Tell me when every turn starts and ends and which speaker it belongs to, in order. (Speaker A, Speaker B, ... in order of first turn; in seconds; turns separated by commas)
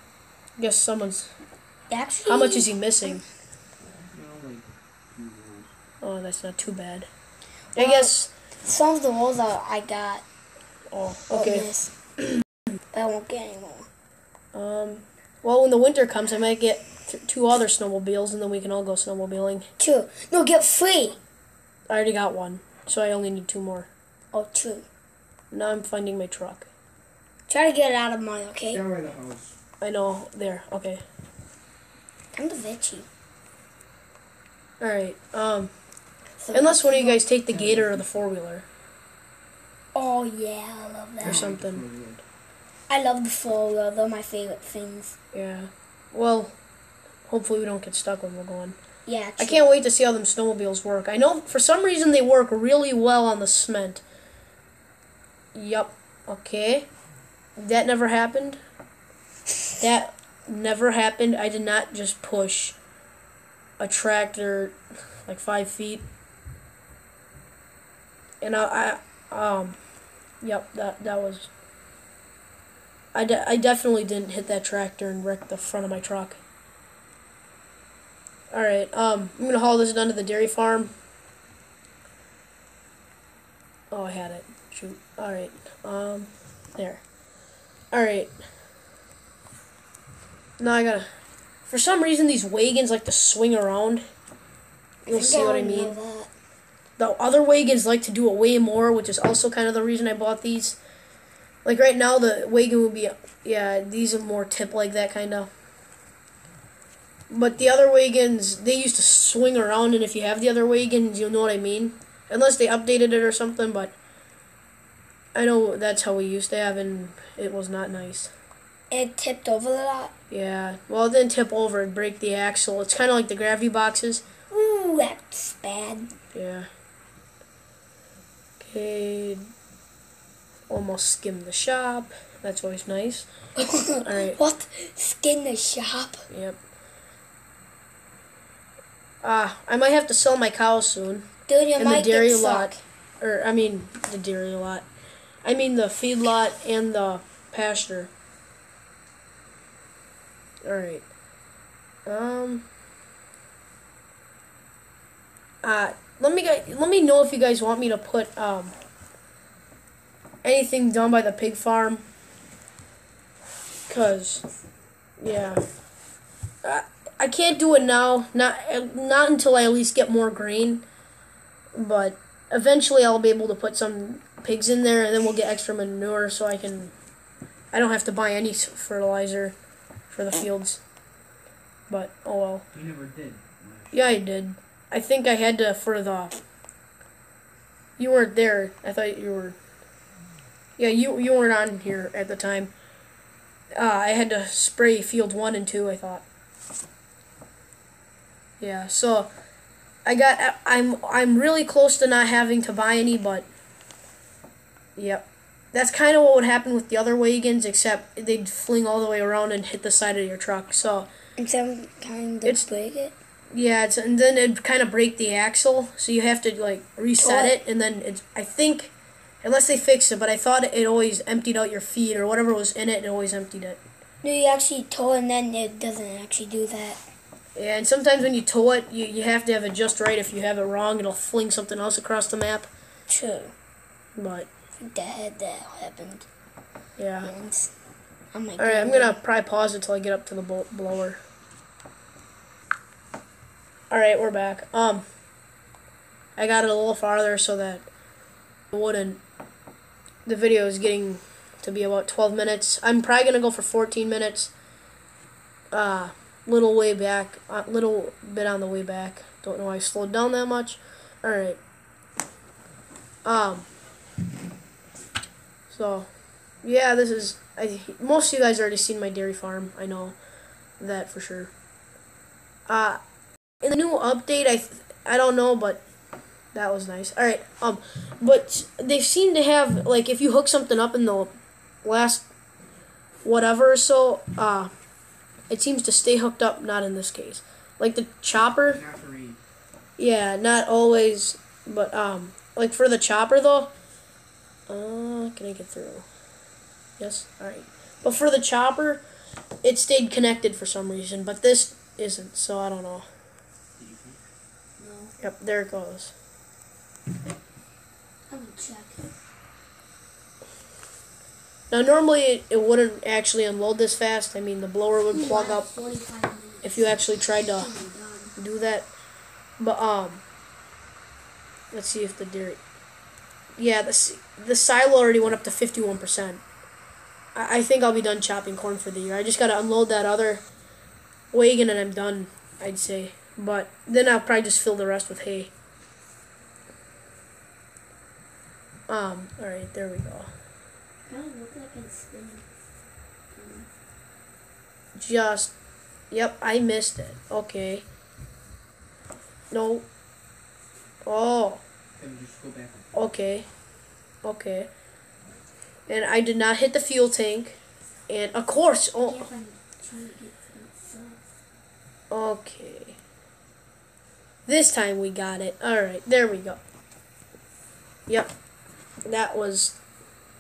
Speaker A: 0.6-1.3, Speaker B: 1.9-3.2, Speaker A: 2.3-3.2, Speaker C: 3.8-5.7, Speaker A: 6.0-7.1, Speaker A: 7.8-8.3, Speaker B: 7.8-10.2, Speaker A: 10.9-11.7, Speaker B: 11.3-11.9, Speaker B: 12.9-13.9, Speaker A: 14.5-19.7, Speaker B: 19.8-21.2, Speaker A: 21.9-23.9, Speaker B: 24.3-24.9, Speaker A: 25.5-26.7, Speaker B: 27.5-28.9, Speaker C: 28.7-29.6, Speaker A: 29.8-31.0, Speaker B: 32.3-33.1, Speaker A: 34.8-35.7, Speaker B: 36.4-37.3, Speaker A: 36.5-38.7, Speaker C: 37.5-38.1, Speaker B: 39.9-41.5, Speaker A: 41.2-41.9, Speaker C: 41.3-42.2, Speaker B: 42.9-45.2, Speaker A: 45.3-46.6, Speaker A: 47.3-48.8, Speaker B: 49.1-49.7, Speaker A: 49.4-54.0, Speaker A: 55.5-56.9, Speaker A: 57.6-58.6, Speaker A: 59.8-62.8, Speaker A: 63.8-66.0, Speaker A: 68.4-69.8, Speaker A: 70.4-71.5, Speaker A: 73.1-76.4, Speaker A: 78.5-80.9, Speaker A: 83.9-87.0, Speaker A: 87.9-88.3, Speaker A: 90.6-91.1, Speaker A: 91.7-94.0, Speaker B: 95.1-96.3, Speaker A: 95.1-96.0, Speaker A: 97.0-100.8, Speaker A: 101.7-105.5, Speaker A: 107.3-114.0, Speaker A: 115.3-118.3, Speaker B: 118.9-120.1, Speaker A: 120.3-124.3, Speaker B: 124.5-126.1, Speaker A: 126.3-126.7, Speaker A: 128.6-129.5, Speaker A: 130.7-133.3, Speaker B: 133.6-136.3, Speaker A: 134.0-134.4, Speaker A: 136.3-136.6, Speaker A: 139.2-144.9, Speaker B: 141.5-142.8, Speaker A: 145.4-148.1, Speaker A: 150.6-151.1, Speaker A: 152.1-152.7, Speaker A: 155.6-158.7, Speaker A: 160.4-162.0, Speaker A: 163.9-164.4, Speaker A: 165.2-165.6, Speaker A: 166.6-170.8, Speaker A: 171.8-176.9, Speaker A: 177.7-179.6, Speaker A: 180.1-180.8, Speaker A: 181.9-182.7, Speaker C: 182.7-184.0, Speaker A: 183.9-186.3, Speaker A: 188.0-189.6, Speaker A: 190.8-192.7, Speaker A: 193.8-196.2, Speaker A: 198.6-199.3, Speaker A: 200.1-203.5, Speaker A: 205.0-211.1, Speaker B: 211.4-213.2, Speaker A: 213.5-223.8, Speaker B: 217.2-217.6, Speaker B: 224.2-227.0, Speaker A: 227.6-232.7, Speaker B: 233.1-233.5, Speaker A: 234.2-234.5, Speaker B: 234.8-236.3, Speaker A: 237.0-237.3, Speaker B: 237.2-237.7, Speaker B: 238.3-239.2, Speaker A: 238.6-241.2, Speaker A: 243.9-245.0, Speaker A: 246.4-247.9, Speaker A: 248.7-249.2, Speaker A: 250.3-254.5, Speaker A: 255.7-261.6, Speaker A: 263.2-263.7, Speaker A: 265.7-266.1, Speaker A: 266.6-270.2, Speaker A: 270.8-271.5, Speaker A: 272.7-273.0, Speaker A: 273.6-275.8, Speaker A: 276.5-282.3, Speaker A: 283.2-284.7, Speaker A: 285.5-288.8, Speaker C: 288.7-289.4, Speaker A: 290.0-293.7, Speaker A: 294.7-296.1, Speaker A: 297.0-299.0, Speaker A: 299.6-303.1, Speaker C: 303.8-304.2, Speaker B: 304.8-305.1, Speaker A: 305.2-306.1, Speaker B: 308.3-309.1, Speaker A: 311.7-315.7, Speaker B: 315.1-318.4, Speaker A: 316.6-317.7, Speaker A: 318.4-318.9, Speaker A: 319.6-320.2, Speaker A: 321.7-322.6, Speaker A: 323.6-326.4, Speaker A: 327.4-330.4, Speaker A: 331.3-335.5, Speaker A: 338.9-340.3, Speaker B: 341.1-342.5, Speaker B: 343.3-343.7, Speaker A: 345.0-345.5, Speaker A: 346.1-347.9, Speaker A: 349.5-349.9, Speaker A: 351.1-351.6, Speaker C: 352.0-352.9, Speaker A: 352.9-353.5, Speaker A: 354.2-354.7, Speaker A: 355.9-357.6, Speaker A: 358.1-359.3, Speaker B: 359.0-361.2, Speaker A: 362.1-363.0, Speaker A: 364.5-366.6, Speaker A: 368.1-368.3, Speaker A: 369.1-369.8